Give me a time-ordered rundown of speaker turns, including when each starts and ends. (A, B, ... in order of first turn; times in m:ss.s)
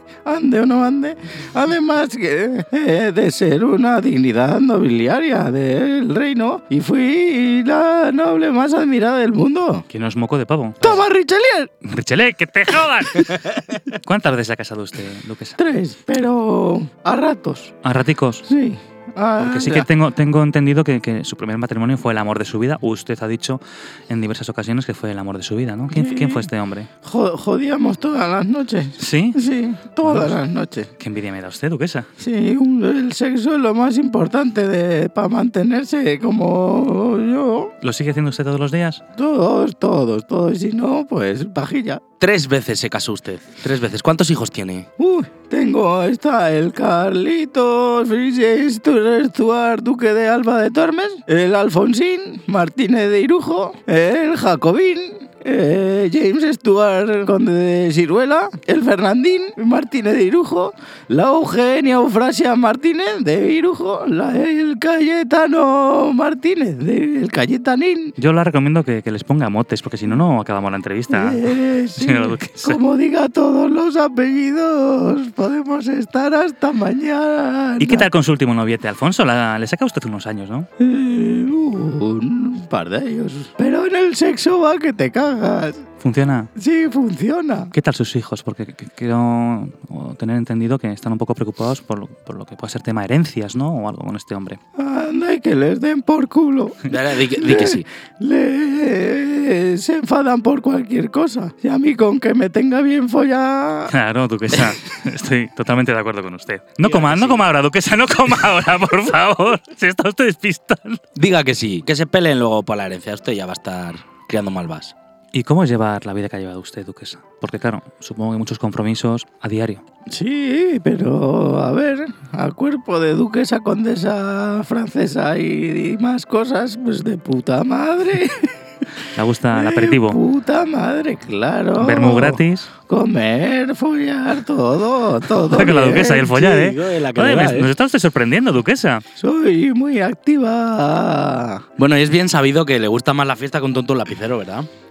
0:00.2-0:09.8 A
0:09.9-0:11.0 B
0:10.8-0:11.7 A
0:11.8-0:15.6 B
0:15.6-0:17.7 A
0:17.8-0:18.4 B
0:18.4-0:19.9 A
0:19.4-0:26.9 B
0:25.9-0:26.5 A
0:27.0-0:30.9 A
0:29.0-0:29.4 B
0:30.0-0:30.4 B
0:31.0-0:32.1 B
0:32.2-0:37.7 A
0:37.8-0:39.0 B
0:39.2-0:42.0 A
0:42.2-0:44.9 C
0:45.0-1:08.1 A
1:08.2-1:12.8 B
1:11.1-1:18.1 A
1:17.8-1:20.7 B
1:20.8-1:25.8 A
1:26.0-1:26.5 B
1:26.6-1:27.7 A
1:27.7-1:34.6 B
1:34.8-1:36.8 A
1:36.9-1:37.8 C
1:37.4-1:43.9 A
1:43.9-1:51.0 B
1:46.8-1:47.4 C
1:51.2-1:54.9 C
1:55.3-1:59.8 B
2:00.1-2:08.5 A
2:09.1-2:10.2 B
2:09.5-2:16.6 A
2:11.8-2:12.7 B
2:15.4-2:19.0 B
2:16.4-2:17.7 C
2:19.2-2:21.6 A
2:21.8-2:24.7 C